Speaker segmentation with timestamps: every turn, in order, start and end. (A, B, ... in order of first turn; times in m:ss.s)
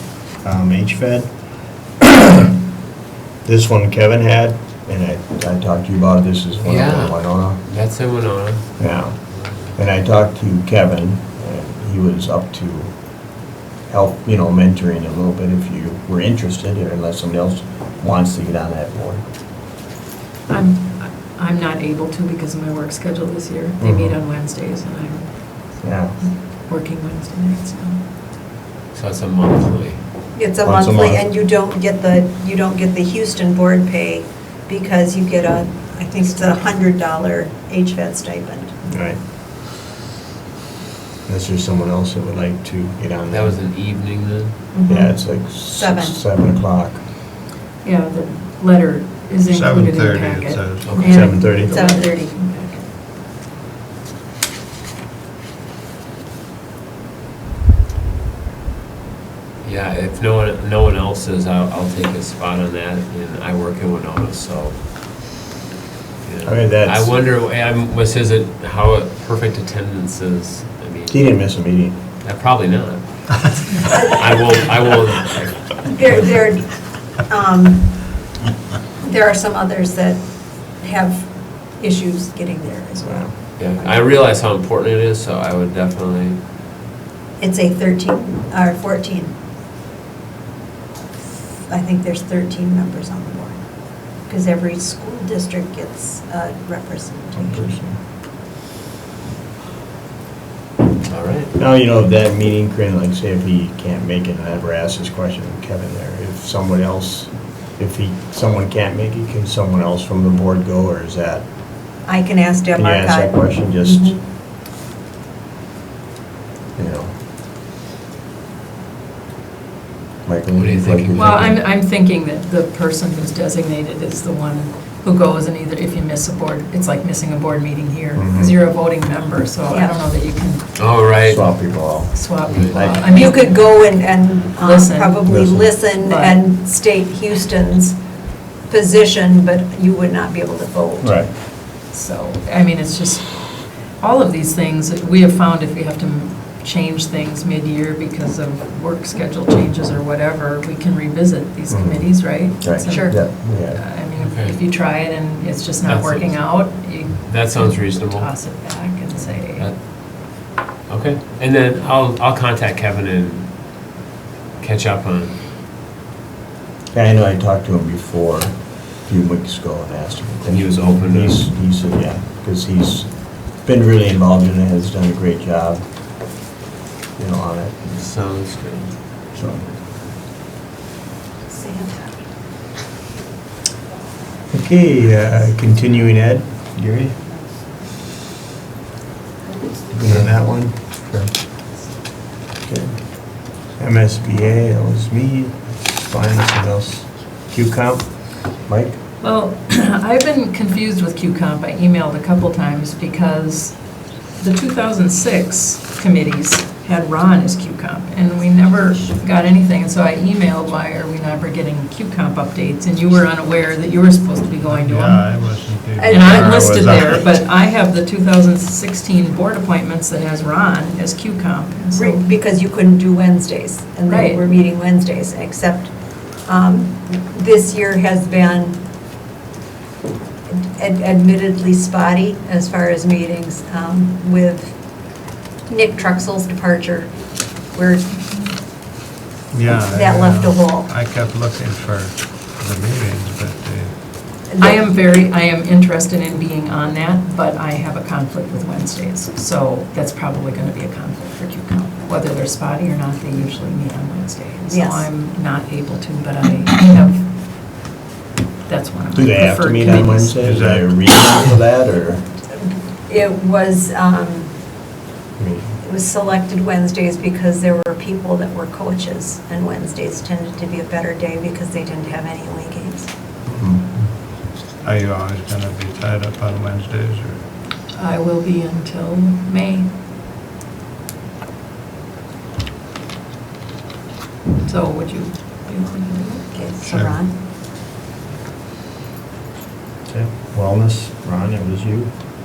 0:00.4-0:01.3 A
0:03.4-0:07.6 A
0:06.6-0:09.7 B
0:08.8-0:12.9 A
0:13.8-0:19.3 A
0:20.5-0:25.4 C
0:23.8-0:24.2 A
0:25.8-0:26.2 A
0:26.7-0:28.0 C
0:28.9-0:30.0 B
0:30.3-0:38.7 D
0:30.6-0:31.2 A
0:38.8-0:39.2 A
0:41.2-0:43.6 A
0:43.3-0:44.5 B
0:44.7-0:46.2 D
0:44.9-0:47.0 A
0:47.8-0:52.9 C
0:49.5-0:50.9 E
0:50.8-0:51.2 B
0:51.0-0:52.2 D
0:51.0-0:51.8 A
0:59.6-1:04.8 B
1:06.2-1:11.3 B
1:06.4-1:07.1 A
1:11.1-1:12.0 A
1:12.2-1:16.5 B
1:13.8-1:14.2 D
1:15.8-1:18.1 D
1:19.0-1:24.0 D
1:23.0-1:23.3 A
1:23.6-1:26.4 B
1:27.4-1:29.3 D
1:31.7-1:33.6 D
1:34.2-1:37.8 D
1:37.4-1:38.0 A
1:41.0-1:41.5 B
1:41.6-1:51.4 A
1:52.0-1:54.2 D
1:52.8-1:54.2 A
1:56.8-1:57.1 A
2:00.2-2:01.6 A
2:00.5-2:01.4 B
2:01.2-2:10.7 C
2:08.2-2:08.5 A
2:09.7-2:10.0 D
2:10.8-2:11.4 B
2:11.2-2:13.1 A
2:12.1-2:14.0 C
2:12.4-2:12.8 B
2:13.0-2:18.0 D
2:14.6-2:15.3 C
2:15.2-2:15.7 A
2:16.0-2:16.4 C
2:18.7-2:21.1 D
2:21.0-2:21.3 A
2:21.9-2:39.7 C
2:31.7-2:33.8 A
2:32.9-2:33.1 D
2:34.2-2:34.6 B
2:35.8-2:36.6 B
2:37.2-2:38.3 B
2:40.3-2:43.5 B
2:44.6-2:45.4 B
2:46.9-2:55.8 A
2:50.4-2:51.5 B
2:57.2-2:58.0 A
2:57.9-2:59.7 B
2:59.3-2:59.7 A
3:01.5-3:02.2 D
3:04.5-3:07.2 A
3:09.9-3:11.0 A
3:12.6-3:19.0 A
3:19.2-3:23.8 C
3:24.4-3:35.3 C
3:34.6-3:37.2 E
3:36.0-3:36.3 D
3:36.0-3:42.2 C
3:41.9-3:48.8 D
3:44.1-3:44.4 C
3:50.5-3:54.8 D
3:55.7-3:57.1 D
3:57.7-3:58.2 D
3:59.5-4:04.0 E
3:59.9-4:00.9 D
4:04.6-4:17.3 C
4:14.7-4:15.0 D
4:18.6-4:20.3 C
4:19.1-4:22.2 A
4:20.4-4:21.0 E
4:22.5-4:24.5 D
4:25.4-4:25.8 A
4:25.8-4:33.1 D
4:33.5-4:33.8 A
4:34.8-4:37.4 E
4:37.9-4:39.9 C
4:44.6-4:46.9 C
4:46.5-4:47.3 D
4:46.8-4:47.2 E
4:50.0-4:52.1 A